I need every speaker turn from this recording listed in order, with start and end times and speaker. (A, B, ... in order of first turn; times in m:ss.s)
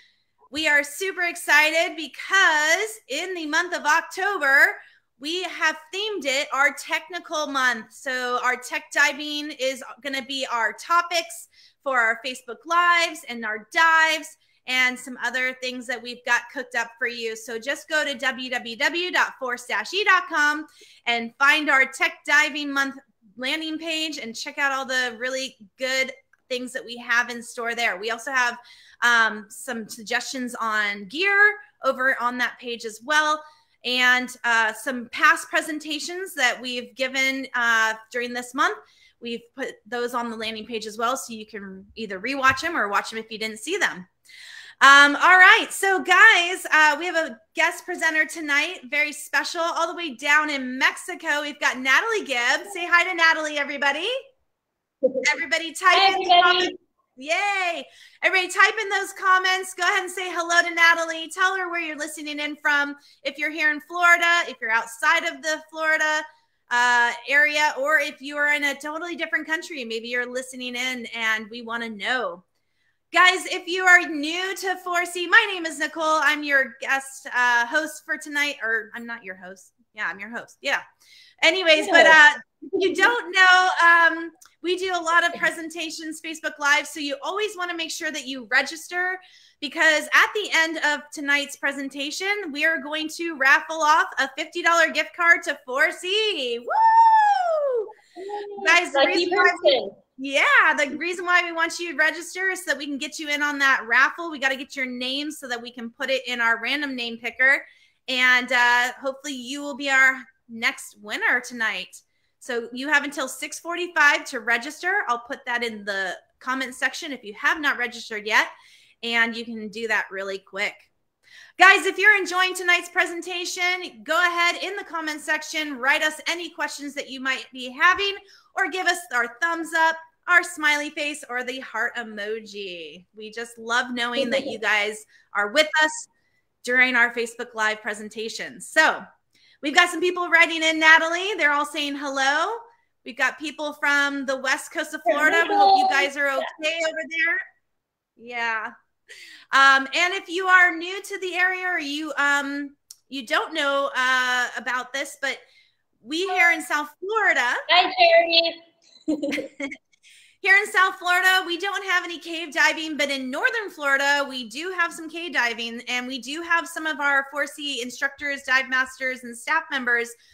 0:00.5-0:44.1 A
0:44.8-0:54.1 A
0:55.2-1:12.4 A
0:55.9-0:56.8 B
1:13.1-1:20.8 A
1:21.4-1:37.9 A
1:21.8-1:22.2 B
1:22.8-1:23.1 B
1:38.2-1:40.0 B
1:38.6-1:58.5 A
1:59.0-2:00.9 A
2:01.6-2:16.1 A
2:14.2-2:14.6 B
2:16.6-2:19.0 A
2:19.6-2:27.4 A
2:25.1-2:26.5 B
2:28.2-2:28.7 A
2:29.5-2:35.4 A
2:36.0-2:37.6 A
2:37.7-2:39.5 B
2:39.4-2:39.7 A
2:40.4-2:50.1 A